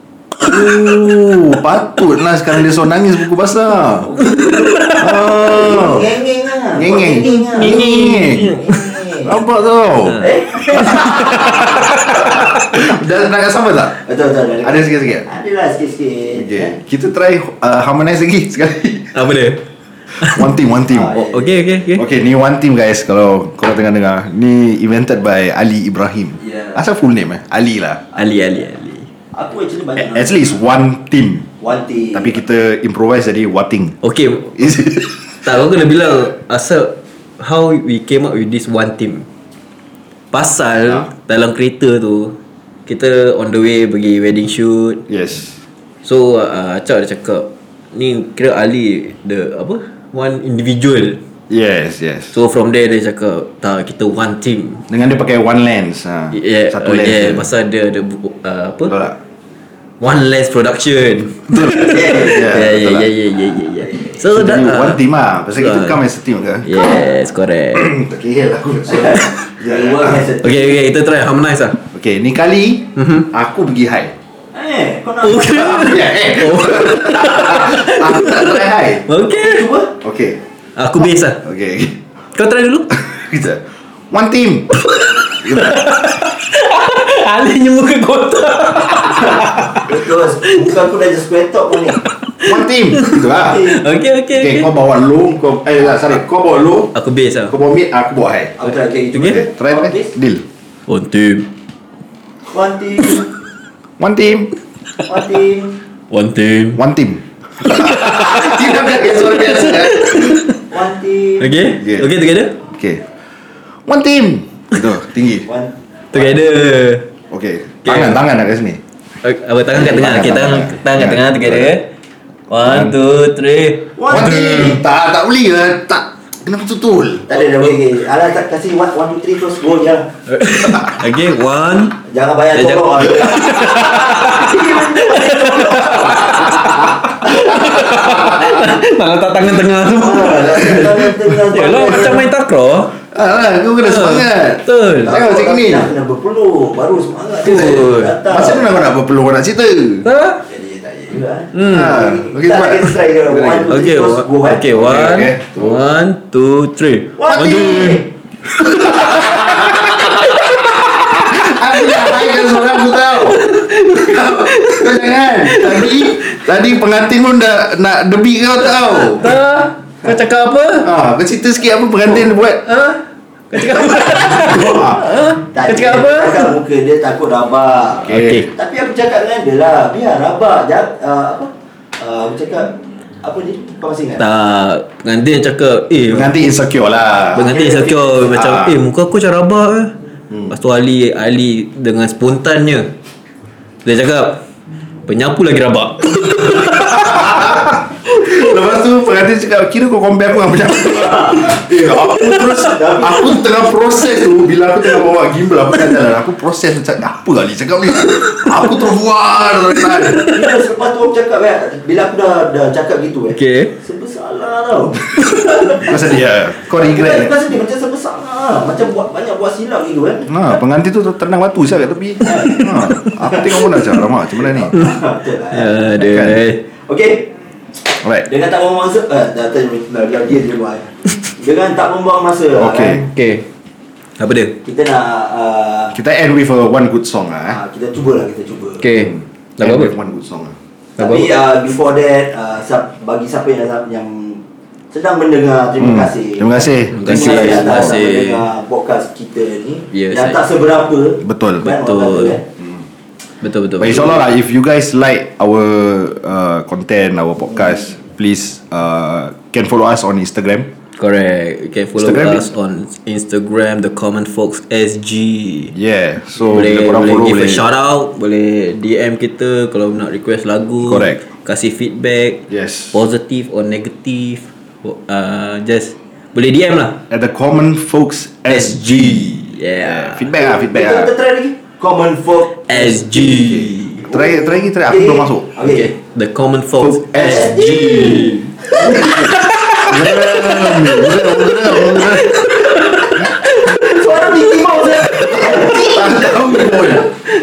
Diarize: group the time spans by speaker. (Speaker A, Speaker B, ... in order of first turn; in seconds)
Speaker A: 0.4-4.1, 5.0-6.1, 6.8-8.6, 9.2-10.2, 10.8-14.0, 14.6-15.3, 16.4-19.2, 20.1-21.2, 21.9-28.0, 30.0-31.5, 32.1-34.0, 34.6-35.1, 45.1-45.6, 51.5-52.4, 54.9-57.5, 58.9-59.2, 61.5-63.1, 64.2-66.8, 67.7-70.3, 71.9-74.1, 75.5-79.0, 80.0-80.4, 81.0-82.0, 83.0-84.8, 85.4-85.8, 92.4-93.8, 94.3-96.9, 97.5-98.6, 99.2-100.4, 104.0-104.5, 106.8-110.4, 111.8-112.1, 112.6-113.0, 113.9-115.5, 117.3-118.8, 119.7-121.8, 122.5-123.0, 124.1-127.3, 137.8-138.1, 143.1-145.9, 148.2-150.1, 151.6-153.6, 154.7-155.8, 158.6-169.3, 170.8-172.6, 174.1-175.2, 178.0-178.5, 186.1-187.6, 188.3-188.8, 196.8-210.2, 215.8-217.3, 220.3-224.7, 226.0-226.4, 232.6-233.1, 235.9-237.6, 239.0-240.6, 245.8-247.9, 251.2-251.7, 253.8-260.7, 262.0-262.5, 265.7-267.6, 270.8-271.2, 272.5-273.0, 277.1-281.1, 284.1-285.5, 286.8-292.6, 295.2-297.1
Speaker B: 4.0-9.4, 10.2-12.4, 14.0-16.8, 20.9-21.9, 26.4-26.8, 29.3-30.4, 31.6-32.4, 61.8-62.6, 68.8-70.8, 74.5-76.0, 79.4-79.9, 89.2-92.0, 93.5-93.8, 98.6-100.2, 102.5-103.3, 105.0-105.8, 110.7-111.7, 115.5-116.3, 124.0-124.8, 127.3-130.1, 132.1-138.5, 140.0-142.3, 145.1-148.8, 150.5-154.8, 157.2-158.1, 158.9-159.3, 175.5-184.3, 187.4-188.2, 201.0-201.5, 202.7-203.3, 210.2-220.6, 222.2-222.7, 224.4-225.8, 226.8-227.3, 228.2-233.0, 234.6-236.0, 237.5-238.9, 241.0-252.4, 253.9-254.2, 280.4-285.9, 287.1-289.2, 293.5-297.0
Speaker C: 7.2-8.9, 10.1-12.4, 19.1-19.6, 20.1-20.5, 21.1-22.1, 28.1-29.1, 34.0-39.3, 40.3-45.0, 46.0-51.2, 52.3-54.8, 56.3-58.9, 60.0-65.0, 65.5-66.0, 66.6-67.9, 70.4-71.8, 73.0-73.3, 75.2-79.7, 80.8-81.4, 82.3-82.9, 85.0-90.7, 92.4-94.7, 97.0-97.5, 99.2-99.4, 100.9-101.5, 106.1-106.8, 107.6-110.6, 111.4-112.6, 116.1-117.1, 117.8-118.2, 119.2-121.9, 122.5-124.8, 130.3-132.0, 132.6-143.0, 143.8-145.1, 147.4-148.2, 150.0-150.4, 151.5-152.0, 153.7-158.0, 158.6-166.5, 168.8-170.9, 172.2-176.5, 178.1-178.5, 184.2-186.3, 187.3-189.9, 190.5-192.9, 193.8-194.4, 195.1-197.8, 201.9-202.7, 209.8-210.5, 213.4-213.8, 222.5-222.9, 225.5-226.6, 233.1-233.5, 234.2-234.6, 238.8-239.9, 241.0-241.3, 246.9-248.4, 249.9-250.4, 251.7-252.4, 253.4-254.2, 261.0-265.8, 266.5-277.0, 278.5-280.3, 282.7-284.1, 285.6-295.8